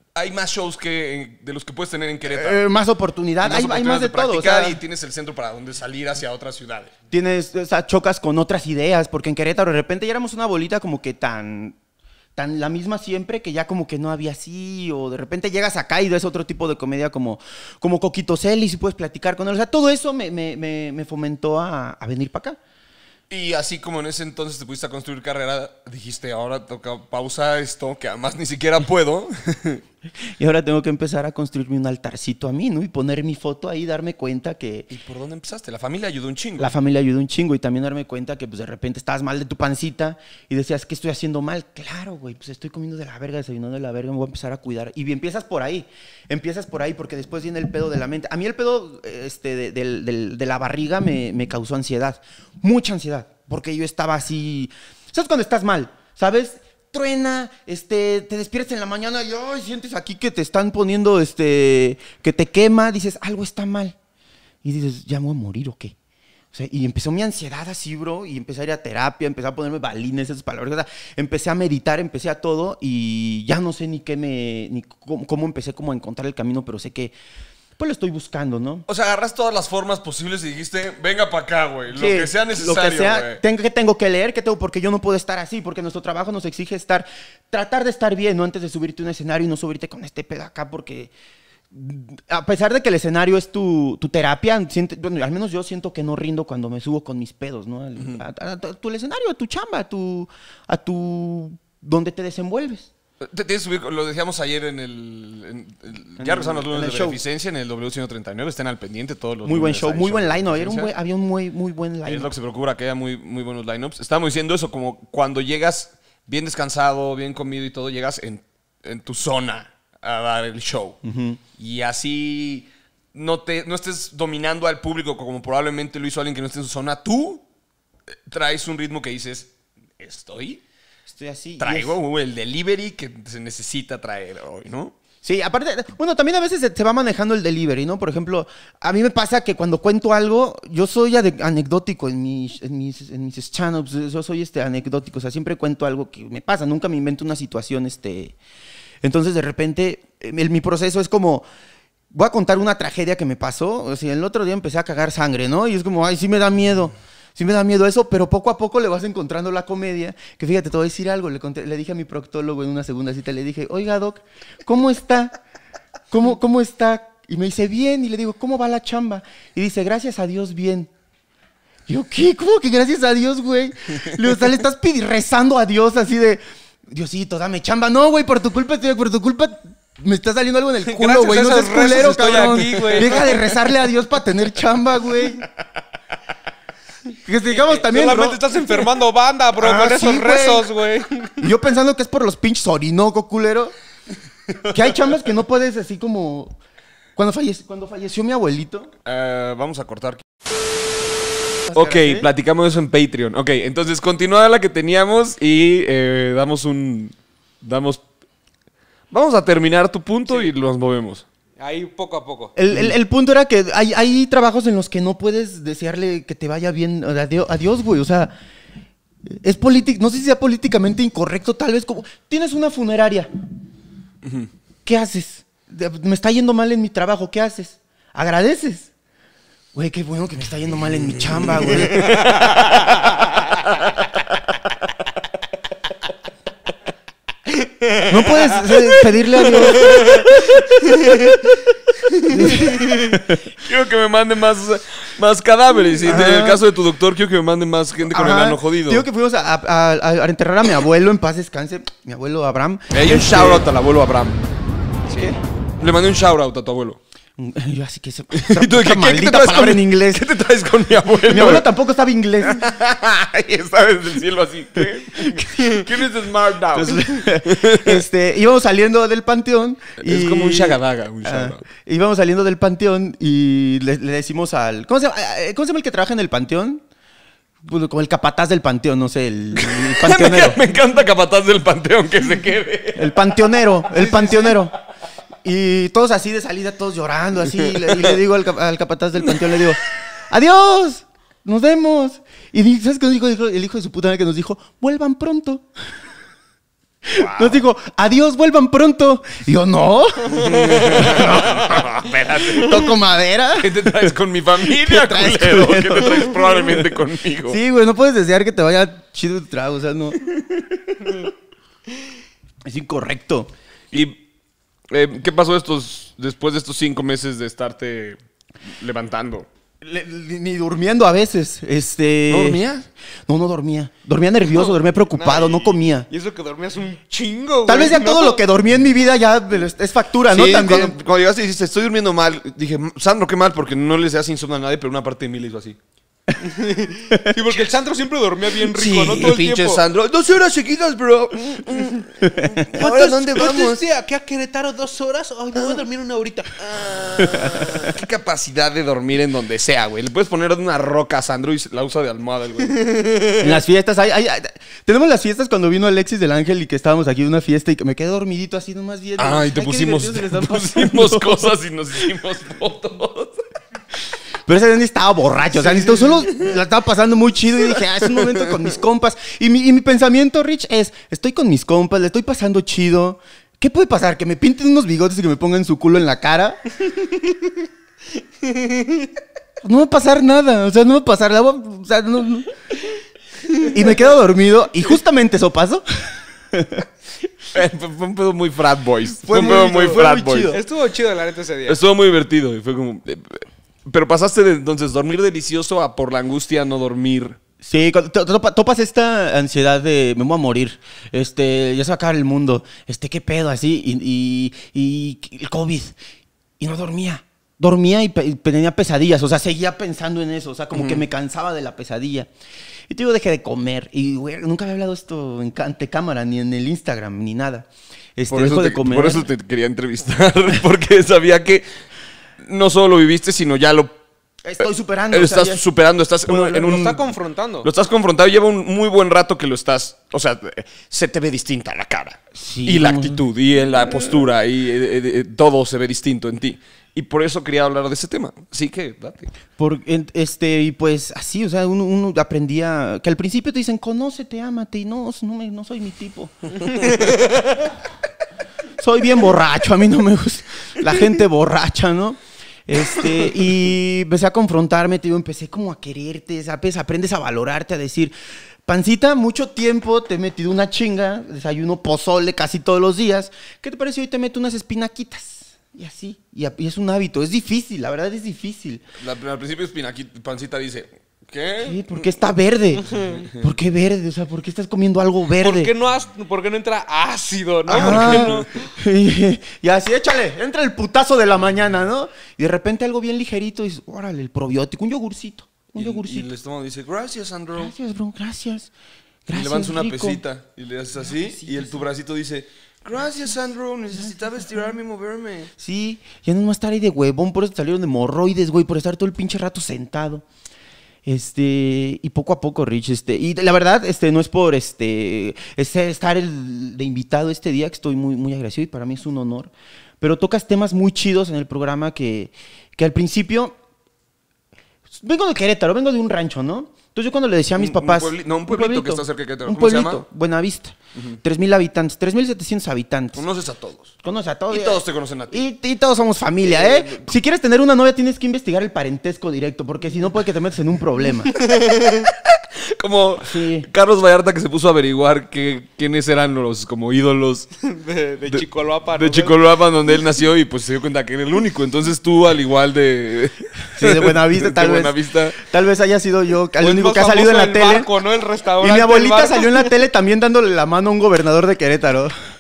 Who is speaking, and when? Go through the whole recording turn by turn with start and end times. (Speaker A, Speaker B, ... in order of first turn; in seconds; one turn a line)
Speaker A: 0.1-2.6
Speaker B: 2.3-4.8
Speaker A: 3.4-6.9
Speaker B: 7.1-11.8
Speaker B: 12.4-22.6
Speaker A: 23.3-29.8
Speaker B: 30.4-34.9
Speaker A: 34.9-36.7
Speaker B: 36.6-64.0
Speaker B: 64.6-66.0
Speaker B: 66.5-77.1
Speaker B: 77.8-78.9
Speaker A: 78.9-83.4
Speaker B: 81.9-91.1
Speaker B: 91.7-102.9
Speaker A: 98.0-98.2
Speaker A: 103.2-110.9
Speaker B: 106.2-107.2
Speaker B: 109.5-112.3
Speaker A: 112.0-121.0
Speaker B: 121.0-121.4
Speaker A: 121.6-127.4
Speaker A: 128.3-130.6
Speaker B: 131.1-132.0
Speaker A: 131.6-134.9
Speaker B: 135.2-148.4
Speaker B: 149.0-151.4
Speaker B: 152.1-165.3
Speaker B: 166.1-170.9
Speaker B: 171.9-185.4
Speaker C: 180.8-183.4
Speaker B: 187.2-188.8
Speaker C: 187.5-191.5
Speaker B: 189.6-190.7
Speaker B: 191.4-193.7
Speaker B: 194.7-196.6
Speaker B: 197.2-198.9
Speaker A: 199.1-200.2
Speaker B: 201.7-202.3
Speaker A: 201.7-208.0
Speaker A: 209.1-211.2
Speaker C: 211.6-212.5
Speaker B: 212.6-218.3
Speaker B: 219.3-223.3
Speaker A: 224.2-224.5
Speaker B: 224.9-228.9
Speaker B: 229.7-232.1
Speaker A: 232.1-232.9
Speaker A: 233.5-234.4
Speaker B: 238.1-240.0
Speaker C: 239.8-241.5
Speaker B: 242.3-243.4
Speaker A: 243.5-249.1
Speaker B: 246.1-246.6
Speaker B: 248.1-253.6
Speaker A: 252.9-254.4
Speaker B: 255.1-255.4
Speaker A: 255.1-257.0
Speaker B: 257.4-260.3
Speaker A: 258.4-261.6
Speaker B: 261.3-262.6
Speaker A: 262.4-268.0
Speaker B: 265.5-265.8
Speaker B: 266.7-276.8
Speaker A: 270.0-271.6
Speaker B: 277.6-280.6
Speaker A: 279.6-283.2
Speaker B: 283.0-284.8
Speaker C: 284.2-284.5
Speaker B: 285.4-295.7
Speaker A: 287.9-288.1
Speaker B: 297.1-301.9
Speaker A: 297.2-297.6
Speaker A: 300.4-302.9
Speaker B: 302.5-304.1
Speaker A: 303.6-307.6
Speaker B: 304.7-310.3
Speaker B: 312.7-313.5
Speaker A: 313.9-314.2
Speaker A: 314.9-318.2
Speaker A: 318.8-319.5
Speaker B: 319.8-322.6
Speaker A: 322.3-322.9
Speaker B: 323.3-326.1
Speaker A: 325.2-325.7
Speaker C: 325.3-325.5
Speaker C: 326.1-328.4
Speaker B: 327.7-331.0
Speaker A: 330.3-335.8
Speaker C: 336.4-339.8
Speaker A: 338.6-343.8
Speaker C: 342.8-346.6
Speaker A: 346.6-352.8
Speaker C: 352.9-353.2
Speaker B: 353.4-361.6
Speaker A: 359.2-363.4
Speaker B: 364.5-376.6
Speaker A: 365.6-366.1
Speaker C: 378.4-379.1
Speaker B: 379.6-382.5
Speaker B: 383.7-386.9
Speaker A: 387.5-390.6
Speaker B: 389.2-390.6
Speaker C: 390.5-391.8
Speaker A: 391.7-397.4
Speaker B: 397.6-406.0
Speaker B: 406.6-412.3
Speaker A: 410.7-411.0
Speaker B: 412.9-419.3
Speaker A: 418.3-421.7
Speaker A: 422.4-424.0
Speaker B: 424.4-425.6
Speaker A: 424.6-427.0
Speaker B: 426.3-426.9
Speaker C: 426.5-427.7
Speaker A: 427.6-439.3
Speaker B: 432.4-433.2
Speaker B: 439.6-446.8
Speaker B: 448.8-458.1
Speaker B: 458.7-468.8
Speaker A: 469.0-472.0
Speaker B: 471.6-475.7
Speaker A: 473.0-473.3
Speaker C: 475.4-478.7
Speaker B: 477.7-486.3
Speaker A: 477.7-478.5
Speaker A: 485.7-487.7
Speaker B: 487.6-488.7
Speaker B: 489.3-490.2
Speaker A: 489.3-495.5
Speaker B: 491.1-491.9
Speaker B: 495.6-500.2
Speaker B: 501.1-513.6
Speaker B: 514.9-523.2
Speaker A: 517.6-520.0
Speaker A: 523.1-523.9
Speaker B: 524.0-531.3
Speaker A: 524.5-525.4
Speaker A: 526.4-527.1
Speaker A: 532.8-537.5
Speaker B: 533.2-533.7
Speaker C: 537.6-539.4
Speaker A: 539.0-545.4
Speaker B: 543.8-547.9
Speaker C: 546.6-549.7
Speaker B: 548.6-552.1